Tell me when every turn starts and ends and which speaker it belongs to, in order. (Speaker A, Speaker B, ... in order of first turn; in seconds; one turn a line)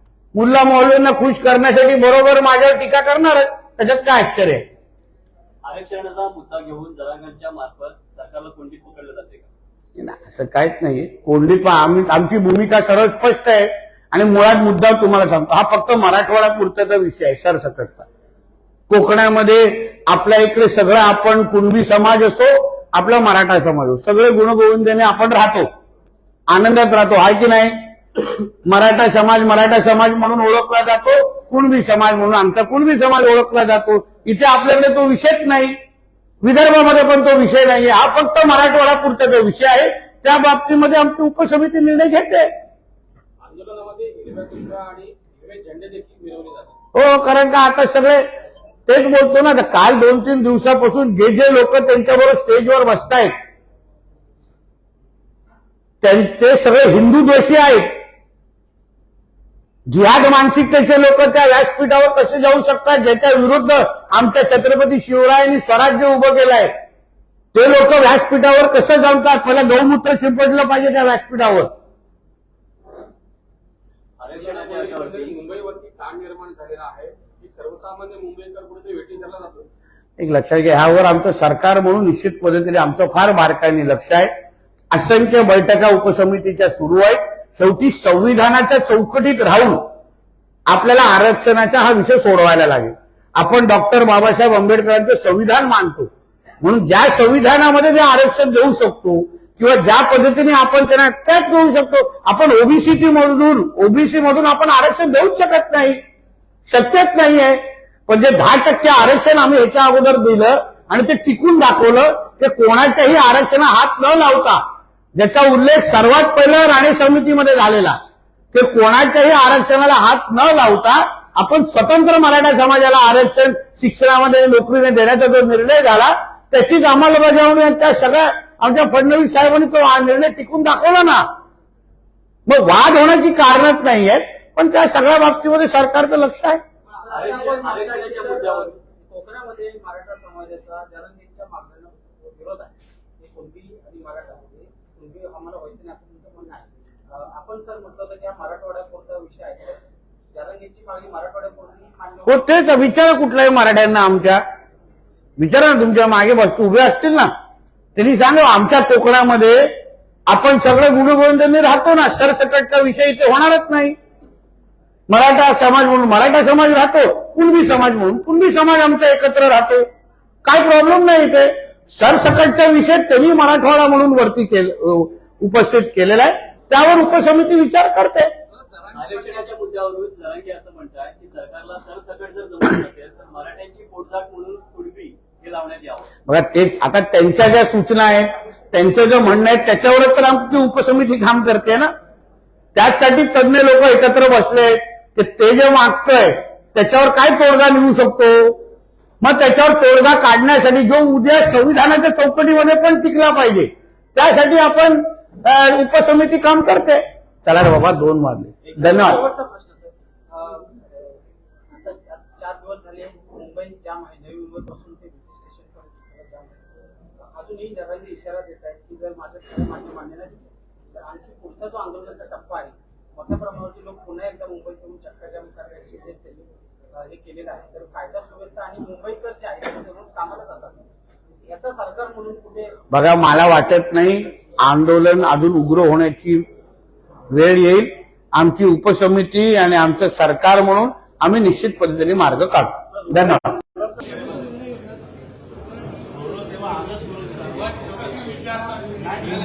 Speaker A: 0.3-4.7
Speaker B: 5.6-9.5
Speaker A: 10.0-18.1
Speaker A: 18.9-25.7
Speaker A: 26.5-27.9
Speaker A: 28.6-35.8
Speaker A: 36.4-42.5
Speaker C: 43.4-46.8
Speaker A: 46.9-48.3
Speaker A: 48.9-53.3
Speaker A: 56.0-58.0
Speaker A: 59.9-66.7
Speaker A: 67.5-71.7
Speaker B: 74.2-75.4
Speaker C: 74.3-79.7
Speaker A: 80.2-84.3
Speaker A: 84.9-89.9
Speaker A: 90.7-96.1
Speaker A: 96.6-106.0
Speaker A: 106.7-114.6
Speaker A: 115.2-118.0
Speaker A: 118.5-131.3
Speaker A: 132.5-136.6
Speaker D: 136.9-149.8
Speaker B: 137.1-138.7
Speaker D: 150.3-152.4
Speaker A: 152.2-154.4
Speaker A: 155.4-157.3
Speaker A: 157.9-159.7
Speaker A: 160.3-163.9
Speaker A: 165.1-169.9
Speaker A: 170.4-178.3
Speaker C: 178.5-179.6
Speaker B: 178.9-186.1
Speaker A: 186.3-191.9
Speaker A: 192.7-198.6
Speaker A: 199.2-209.2
Speaker D: 208.6-211.2
Speaker D: 211.7-216.6
Speaker D: 217.2-230.9
Speaker D: 231.4-232.7
Speaker A: 232.9-236.4
Speaker A: 237.3-243.6
Speaker B: 243.8-244.6
Speaker B: 246.1-248.1
Speaker A: 248.1-249.2